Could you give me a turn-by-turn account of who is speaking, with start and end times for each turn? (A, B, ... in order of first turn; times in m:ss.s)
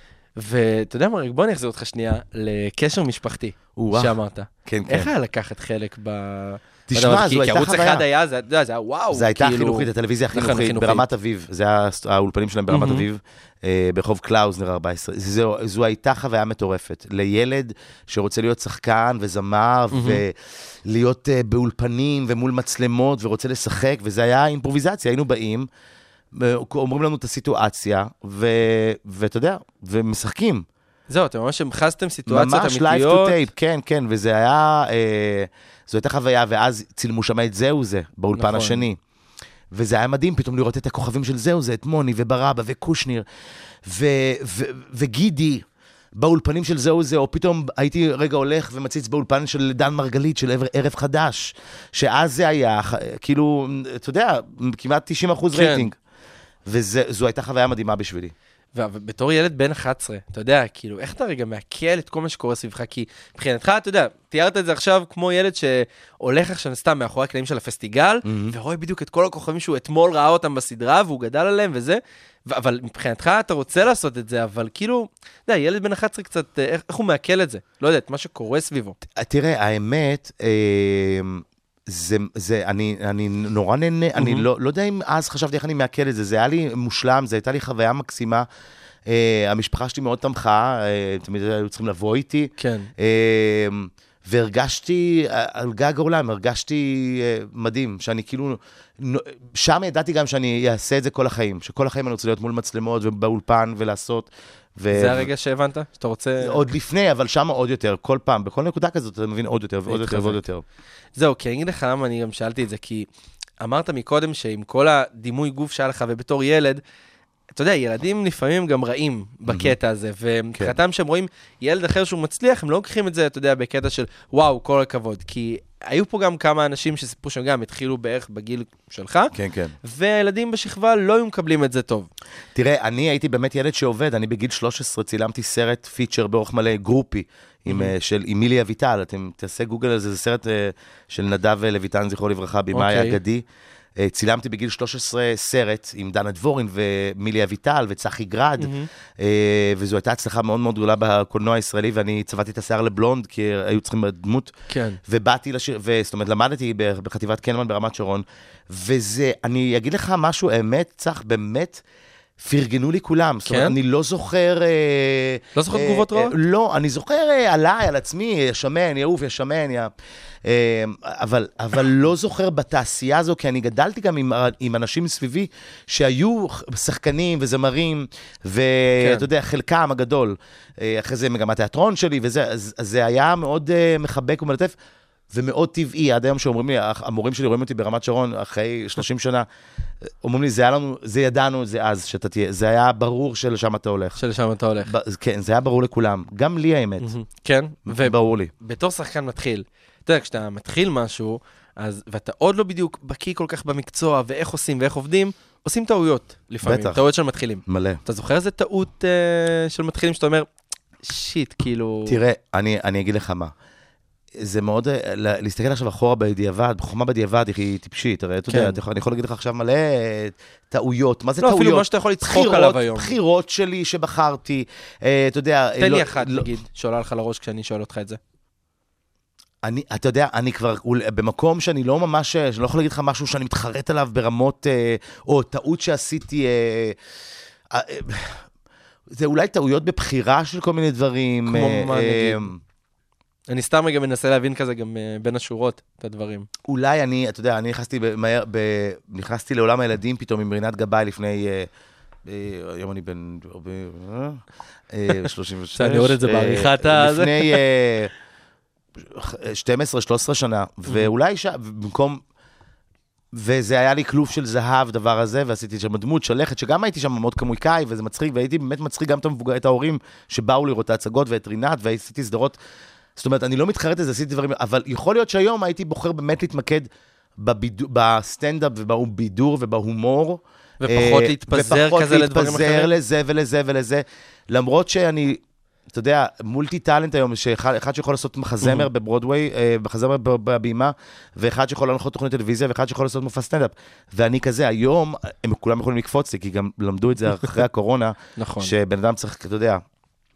0:00.4-0:11.0 A
0:03.8-0:05.1 B
0:06.9-0:08.0 B
0:09.1-0:25.7 B
0:12.7-0:13.0 A
0:19.9-0:20.2 A
0:26.3-0:30.6 B
0:31.1-0:33.4 A
0:32.3-0:39.0 B
0:38.4-0:38.8 A
0:39.7-0:43.2 B
0:43.8-0:45.6 B
0:46.2-0:55.9 B
0:55.5-0:55.9 A
0:56.7-0:58.3 B
0:58.7-1:19.0 A
1:08.2-1:08.5 B
1:19.1-1:28.4 B
1:24.2-1:24.4 A
1:29.1-1:45.3 B
1:32.6-1:32.9 A
1:44.9-1:46.6 A
1:46.4-1:50.6 B
1:49.9-1:50.4 A
1:51.2-1:53.1 A
1:53.6-1:56.8 A
1:57.5-2:09.3 A
1:59.5-1:59.8 B
2:09.3-2:09.7 B
2:09.8-2:12.1 A
2:12.5-2:23.4 B
2:17.7-2:17.9 A
2:22.7-2:23.2 A
2:24.0-2:34.5 B
2:28.6-2:28.9 A
2:34.7-2:35.0 A
2:35.0-2:41.8 B
2:42.4-2:49.9 B
2:43.4-2:43.8 A
2:45.6-2:46.3 A
2:50.4-3:04.7 B
2:59.0-2:59.3 A
3:05.3-3:09.4 B
3:10.0-3:14.2 B
3:14.2-3:14.9 A
3:14.8-3:17.1 B
3:17.0-3:30.5 A
3:17.9-3:18.5 B
3:26.6-3:27.0 B
3:27.6-3:28.0 B
3:31.0-3:32.2 A
3:32.0-3:33.5 B
3:34.4-3:46.5 B
3:38.5-3:38.8 A
3:41.4-3:43.1 A
3:45.8-3:48.2 A
3:49.6-3:57.0 B
3:57.7-3:58.4 B
3:59.1-4:02.6 B
4:01.5-4:02.4 A
4:03.5-4:06.5 A
4:06.6-4:11.7 B
4:12.2-4:18.1 B
4:15.8-4:17.6 A
4:19.0-4:22.2 B
4:23.3-4:32.6 B
4:33.2-4:36.9 B
4:37.4-4:45.4 B
4:40.8-4:42.9 A
4:45.9-4:59.8 B
4:48.6-4:48.9 A
4:58.4-4:58.7 A